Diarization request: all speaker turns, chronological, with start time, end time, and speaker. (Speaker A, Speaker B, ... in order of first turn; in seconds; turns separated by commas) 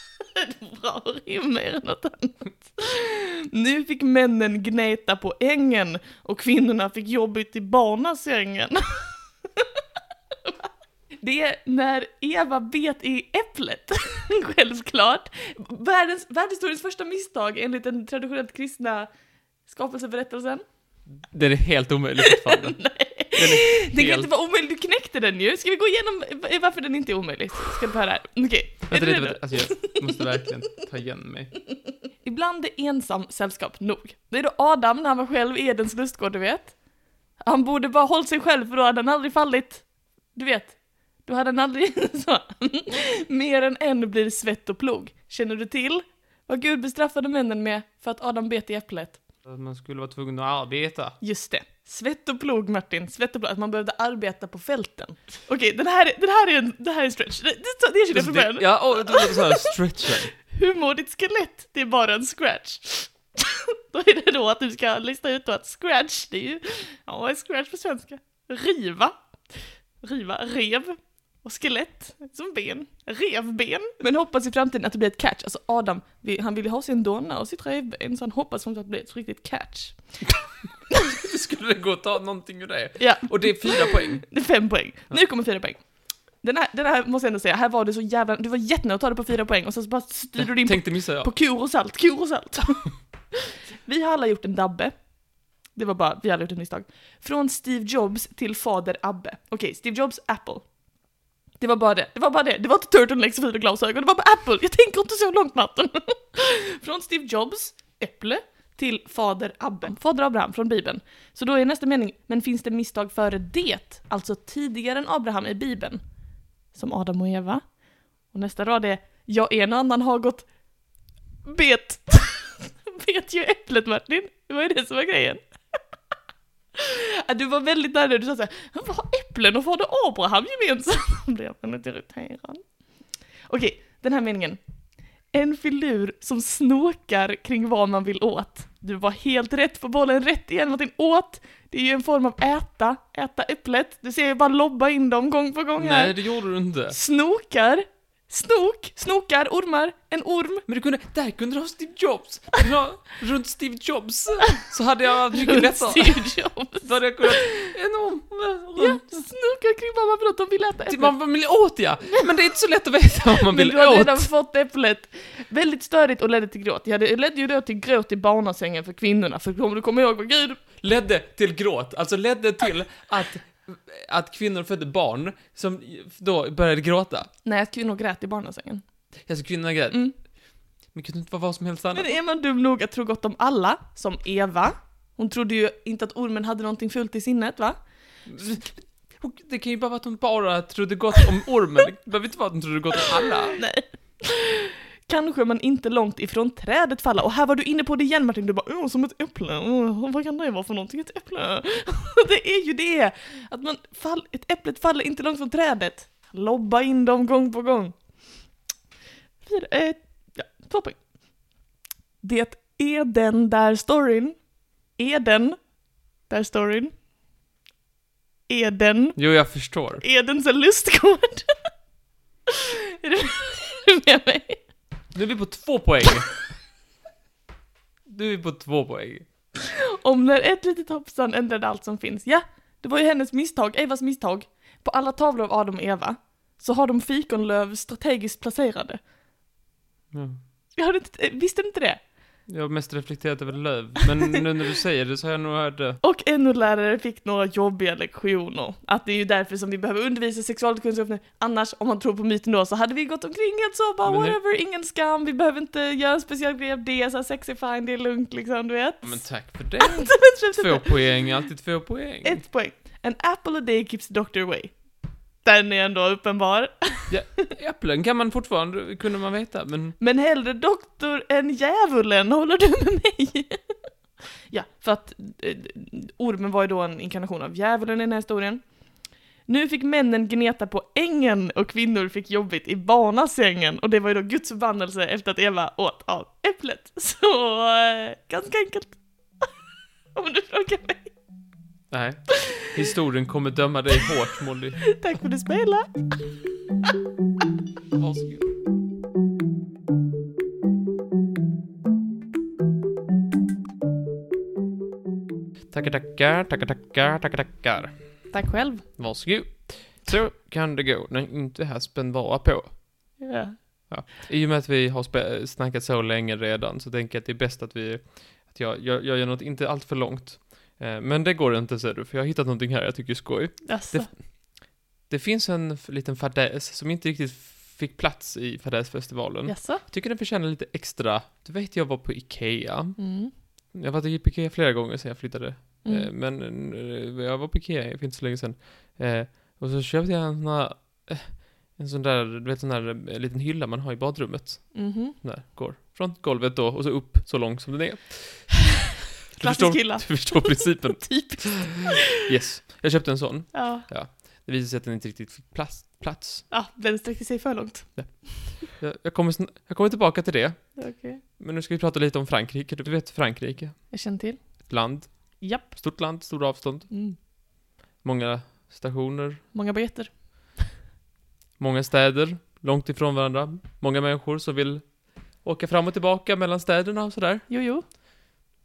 Speaker A: 0.3-9.7, Speaker A: 11.2-19.1, Speaker A: 19.7-20.6, Speaker B: 21.2-24.3, Speaker A: 22.2-30.1, Speaker B: 28.9-31.5, Speaker A: 32.2-36.8, Speaker A: 37.4-49.2, Speaker B: 49.4-51.2, Speaker A: 51.2-59.8, Speaker B: 58.1-60.3, Speaker A: 60.4-80.1, Speaker B: 80.9-84.3, Speaker A: 83.0-85.8, Speaker A: 86.4-94.9, Speaker B: 90.3-91.3, Speaker A: 95.7-100.7, Speaker A: 101.6-116.0, Speaker A: 116.7-117.6, Speaker A: 118.3-120.5, Speaker A: 121.4-125.4, Speaker A: 126.8-132.6, Speaker A: 133.5-134.6, Speaker A: 135.3-146.2, Speaker B: 145.8-147.0, Speaker A: 146.9-150.6, Speaker B: 150.7-159.2, Speaker A: 155.3-157.7, Speaker A: 158.8-161.1, Speaker B: 160.9-164.3, Speaker A: 163.5-170.6, Speaker B: 170.8-177.3, Speaker A: 177.4-178.8, Speaker B: 179.3-180.1, Speaker B: 180.9-182.1, Speaker A: 181.9-187.8, Speaker B: 188.3-193.6, Speaker A: 193.5-208.0, Speaker A: 209.4-211.0, Speaker A: 212.2-214.4, Speaker A: 214.9-215.6, Speaker A: 216.3-216.9, Speaker A: 218.5-219.2, Speaker B: 219.2-220.0, Speaker A: 220.0-221.5, Speaker A: 222.5-224.6, Speaker B: 225.1-226.3, Speaker B: 228.1-229.3, Speaker A: 229.7-239.0, Speaker B: 240.1-240.4, Speaker A: 240.8-242.0, Speaker B: 242.5-246.0, Speaker A: 246.0-259.3, Speaker B: 254.0-254.4, Speaker B: 259.0-262.4, Speaker A: 259.8-260.9, Speaker A: 262.2-264.8, Speaker A: 265.4-267.5, Speaker B: 267.1-270.0, Speaker A: 270.0-273.7, Speaker A: 274.5-278.6, Speaker A: 279.4-289.0, Speaker A: 290.1-291.1, Speaker B: 291.9-294.8, Speaker A: 294.9-296.1, Speaker B: 297.9-298.5, Speaker B: 305.7-307.9, Speaker A: 308.3-308.9, Speaker B: 309.0-312.8, Speaker A: 313.2-313.6, Speaker B: 313.9-324.2, Speaker A: 323.6-324.1, Speaker B: 325.1-333.0, Speaker A: 329.4-329.8, Speaker A: 333.0-333.3, Speaker B: 333.7-348.8, Speaker A: 335.8-336.1, Speaker A: 344.7-345.1, Speaker B: 349.3-356.5, Speaker A: 349.4-352.0, Speaker A: 353.5-353.8, Speaker A: 356.5-358.6, Speaker B: 357.9-360.8, Speaker A: 360.8-361.2, Speaker B: 361.4-364.0, Speaker A: 363.9-364.4, Speaker B: 364.7-366.9, Speaker A: 365.4-365.7, Speaker A: 366.9-367.2, Speaker B: 368.0-369.4, Speaker A: 369.5-370.6, Speaker B: 371.6-377.4, Speaker A: 377.5-377.8